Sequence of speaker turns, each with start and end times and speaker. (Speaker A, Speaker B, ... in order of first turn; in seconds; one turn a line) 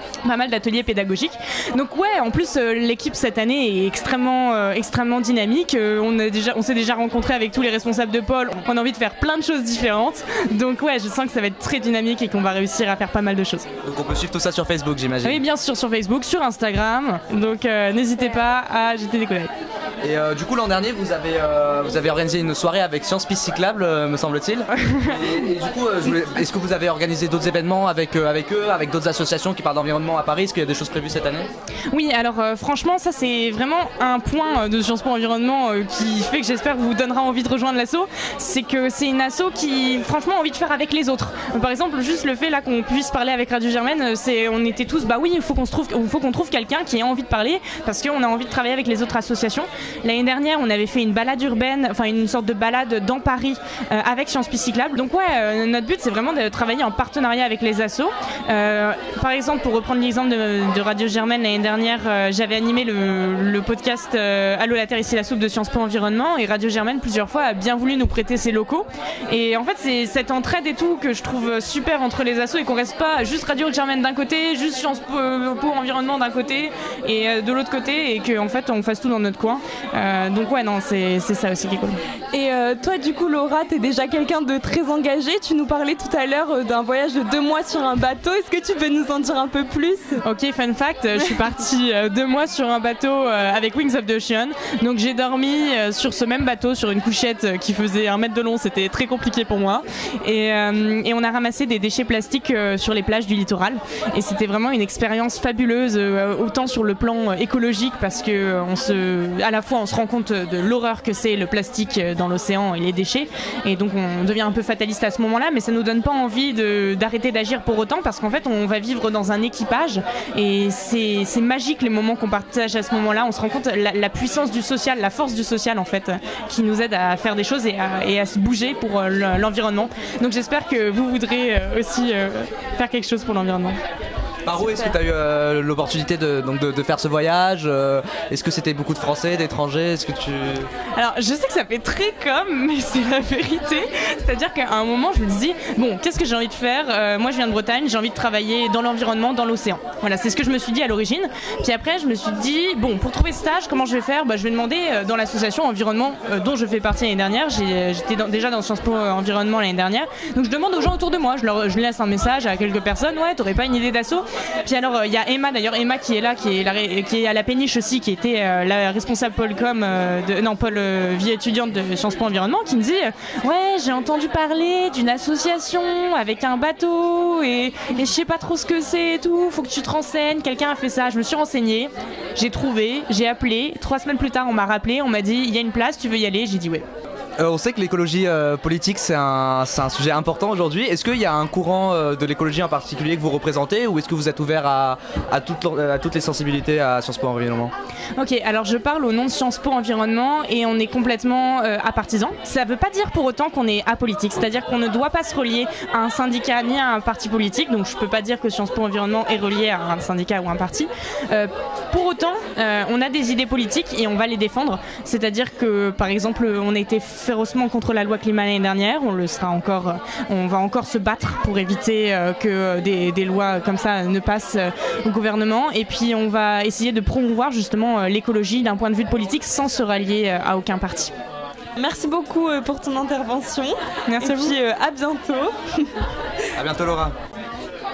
Speaker A: 0.2-13.7
Speaker B: 13.8-15.4
Speaker A: 15.2-19.5
Speaker B: 20.0-31.5
Speaker A: 31.9-82.0
Speaker C: 82.3-90.2
Speaker A: 90.2-133.8
Speaker B: 134.5-140.7
Speaker A: 141.0-186.9
Speaker B: 187.4-197.7
Speaker A: 198.2-231.1
Speaker C: 231.8-235.9
Speaker A: 234.1-234.6
Speaker B: 236.6-237.2